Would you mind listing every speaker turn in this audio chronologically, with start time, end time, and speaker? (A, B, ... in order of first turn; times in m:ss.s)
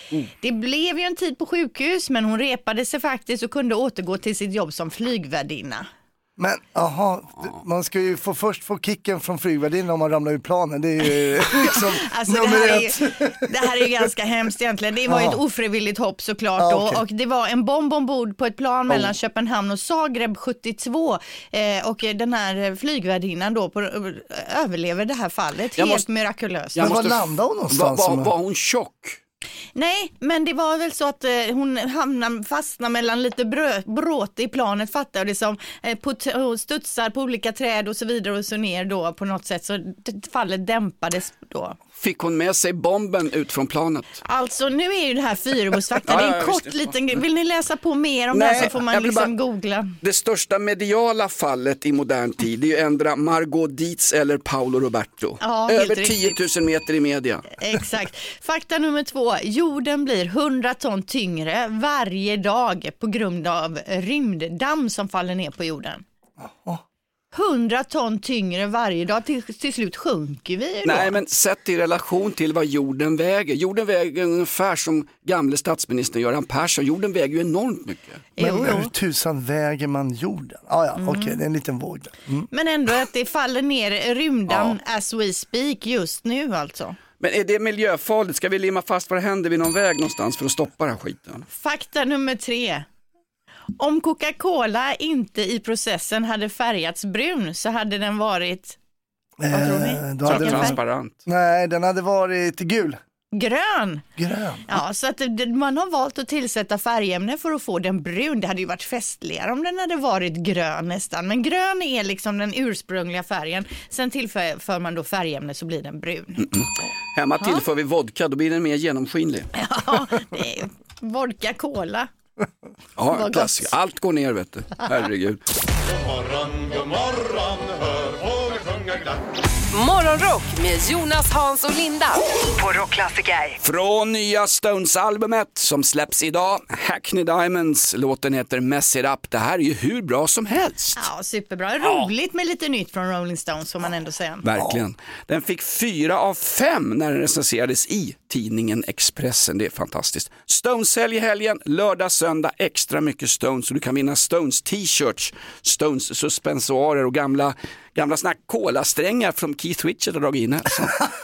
0:00.4-0:05.9 A
0:06.4-0:13.4 B
0:11.6-0:26.9 A
0:15.1-0:15.4 B
0:16.6-0:17.0 B
0:25.8-0:26.0 C
0:26.7-0:29.2 C
0:26.8-0:28.3 B
0:29.8-0:41.8 A
0:42.0-0:44.2 C
0:44.2-0:50.0 A
0:46.1-0:46.9 C
0:48.3-0:49.3 C
0:50.0-0:57.4 C
0:55.4-0:56.4 A
0:57.6-1:06.0 A
1:06.4-1:06.8 B
1:07.3-1:11.2 A
1:10.8-1:18.2 C
1:18.4-1:18.9 A
1:18.4-1:22.5 B
1:21.0-1:21.4 A
1:22.5-1:27.0 A
1:24.5-1:24.8 C
1:27.2-1:31.5 C
1:31.5-1:32.9 A
1:33.8-1:38.8 A
1:39.4-1:43.0 B
1:39.5-1:40.8 A
1:40.3-1:41.2 C
1:43.3-1:44.0 A
1:44.2-1:44.8 B
1:44.7-1:56.5 A
1:56.4-1:59.5 C
1:59.6-2:02.1 A
2:03.0-2:05.4 C
2:03.1-2:03.7 A
2:05.9-2:09.1 D
2:09.7-2:12.2 E
2:13.6-2:21.1 C
2:21.0-2:24.4 A
2:21.8-2:22.1 C
2:24.4-2:41.1 C